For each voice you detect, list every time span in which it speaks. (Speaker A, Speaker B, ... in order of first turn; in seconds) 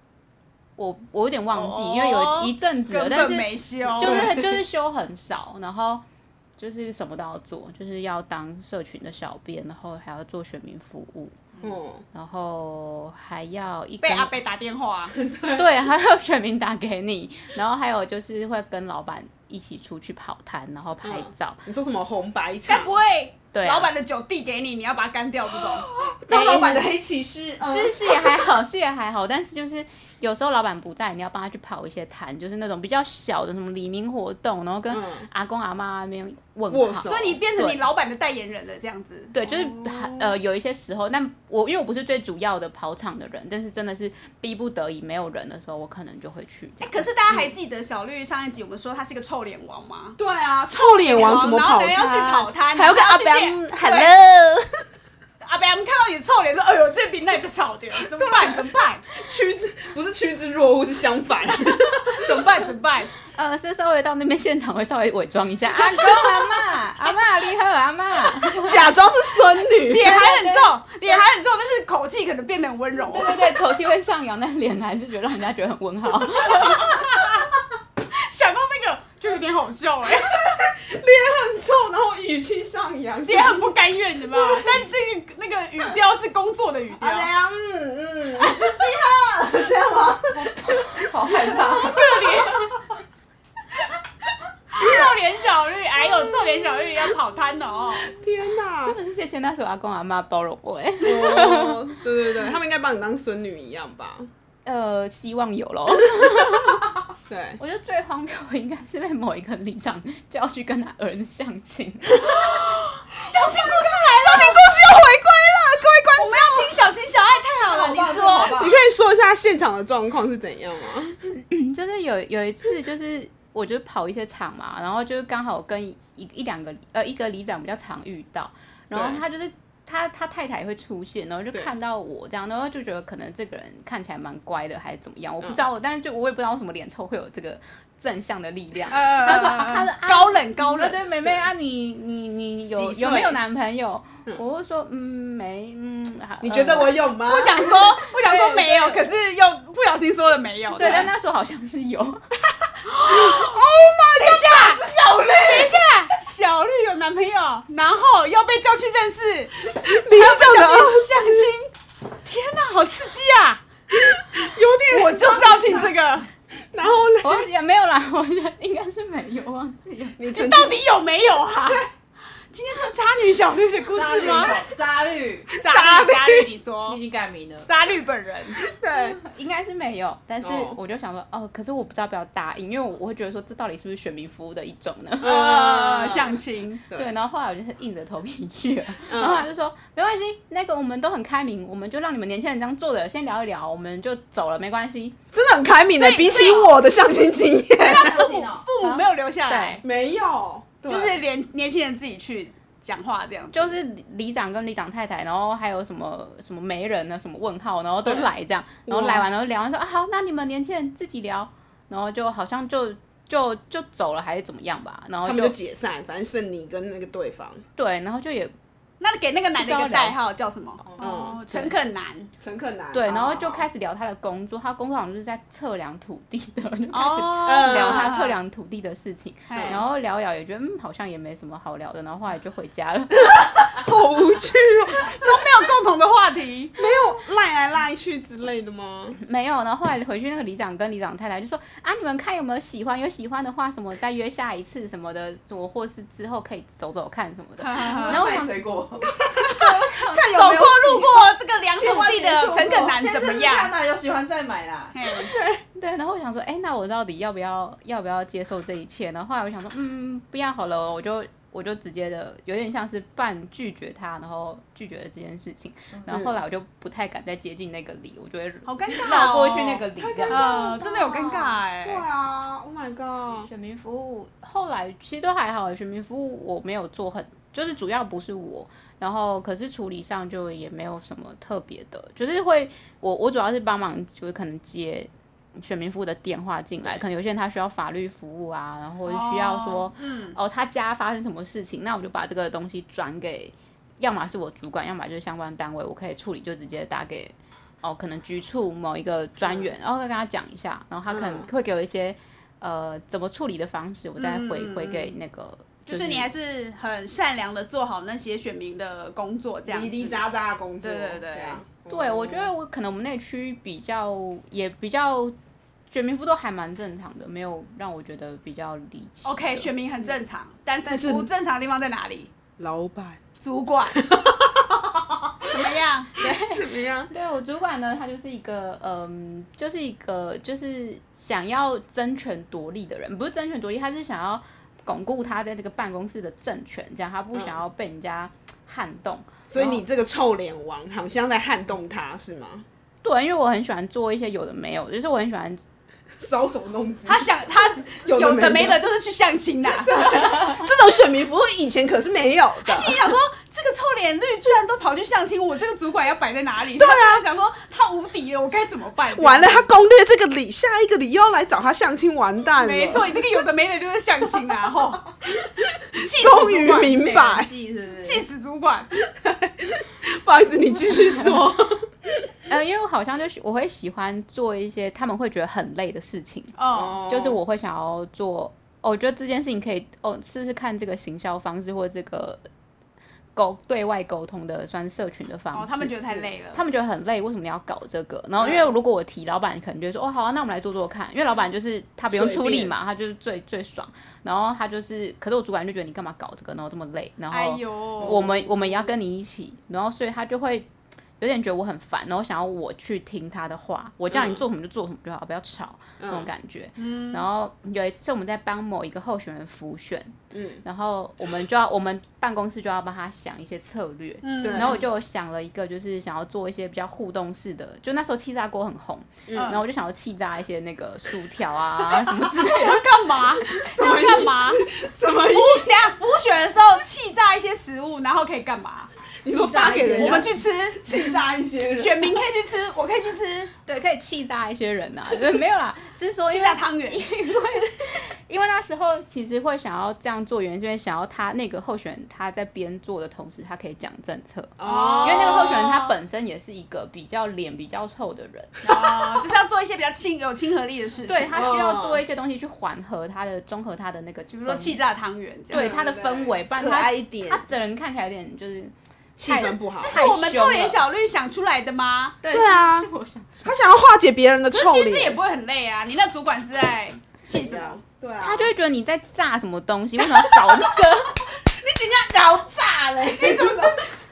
Speaker A: 0.8-6.0, 6.6-11.4, 12.1-14.4, 15.5-21.7, 23.5-23.9, 26.3-26.9, 27.6-37.8, 39.3-47.5, 63.3-68.9, 73.0-76.8, 98.8-101.8, 104.7-106.8, 107.6-112.5, 121.3-149.1, 150.8-152.2, 167.2-170.2, 178.9-185.8, 186.9-195.2, 198.8-199.8, 203.5-215.6, 217.8-218.5, 219.6-220.2, 222.9-233.3, 239.2-248.6, 255.8-270.5, 273.4-306.3, 311.9-315.4, 315.9-319.7, 326.2-339.8, 343.0-345.6, 372.5-382.4, 383.4-400.7, 401.2-422.9, 433.7-448.6, 451.1-454.8, 455.5-458.7, 459.9-460.8, 462.2-463.5, 468.2-471.2
Speaker B: 1.5-4.3, 14.0-15.2, 22.7-25.9, 37.0-39.3, 46.8-50.2, 50.7-54.1, 55.4-59.1, 62.1-63.1, 69.8-73.4, 76.5-77.5, 78.1-80.5, 83.3-87.3, 91.7-92.8, 94.7-98.1, 112.3-114.6, 116.2-118.6, 138.9-141.0, 147.3-151.1, 152.9-154.8, 155.4-161.7, 162.2-163.6, 164.9-166.3, 170.3-171.9, 172.5-174.6, 175.6-177.0, 177.7-178.7, 185.2-186.8, 195.9-196.8, 197.8-199.8, 200.8-203.8, 219.0-222.3, 226.9-228.4, 229.5-229.8, 235.2-236.8, 247.6-248.2, 249.3-253.7, 254.9-255.3, 268.7-272.1, 289.1-290.4, 304.2-305.2, 305.9-310.2, 310.8-311.6, 319.2-322.3, 323.4-324.1, 325.4-326.1, 347.1-350.3, 352.6-359.7, 362.6-365.1, 366.0-367.0, 368.0-368.9, 376.6-377.0, 385.5-386.6, 397.3-398.3, 406.8-407.2, 414.2-414.8, 419.3-419.6, 422.3-424.6, 425.2-428.9, 429.6-431.2, 431.8-433.5, 436.3-437.1, 444.6-445.9, 448.6-451.6, 454.3-455.7, 459.3-462.2, 464.5-467.8
Speaker C: 4.0-4.6, 11.6-12.1, 15.2-15.7, 21.0-23.0, 25.5-28.4, 34.9-35.3, 36.7-37.4, 39.4-40.3, 50.2-54.8, 59.2-62.7, 68.6-70.5, 80.3-83.7, 84.4-84.7, 87.0-90.8, 91.8-92.5, 98.0-99.0, 101.0-104.3, 107.3-107.6, 113.7-116.8, 118.5-121.2, 128.9-129.2, 142.7-143.4, 146.4-147.8, 150.8-151.1, 153.1-155.8, 159.8-161.5, 163.9-165.9, 166.7-167.5, 170.2-170.8, 174.2-174.6, 175.6-176.5, 178.6-179.2, 180.4-180.8, 185.2-186.3, 189.1-189.5, 195.3-198.3, 199.8-201.2, 208.1-208.3, 208.9-209.3, 215.2-217.6, 220.9-221.4, 222.4-223.7, 227.4-228.2, 229.5-229.8, 233.3-235.4, 236.8-239.2, 249.7-251.1, 255.2-255.6, 266.1-266.3, 270.0-273.5, 301.1-301.5, 309.7-312.5, 320.9-321.3, 322.6-323.2, 324.1-325.5, 326.4-327.1, 339.5-342.6, 346.2-347.3, 348.0-348.8, 349.8-353.1, 356.7-357.2, 359.1-363.2, 366.0-367.5, 369.2-371.9, 376.7-377.4, 388.4-388.7, 392.1-392.7, 398.0-398.5, 404.1-404.4, 406.0-406.3, 410.3-410.6, 414.4-414.8, 419.3-419.6, 423.5-425.9, 429.2-432.2, 444.6-445.7, 451.3-452.0, 455.5-457.4, 459.2-460.0, 462.3-462.9, 463.4-465.2, 467.3-468.5, 471.6-473.8
Speaker D: 88.5-89.3, 90.4-92.1, 117.7-118.8, 173.9-175.5, 176.9-177.7, 197.9-198.7, 247.8-249.5, 251.7-254.9, 366.7-368.2, 429.3-430.4, 473.0-473.8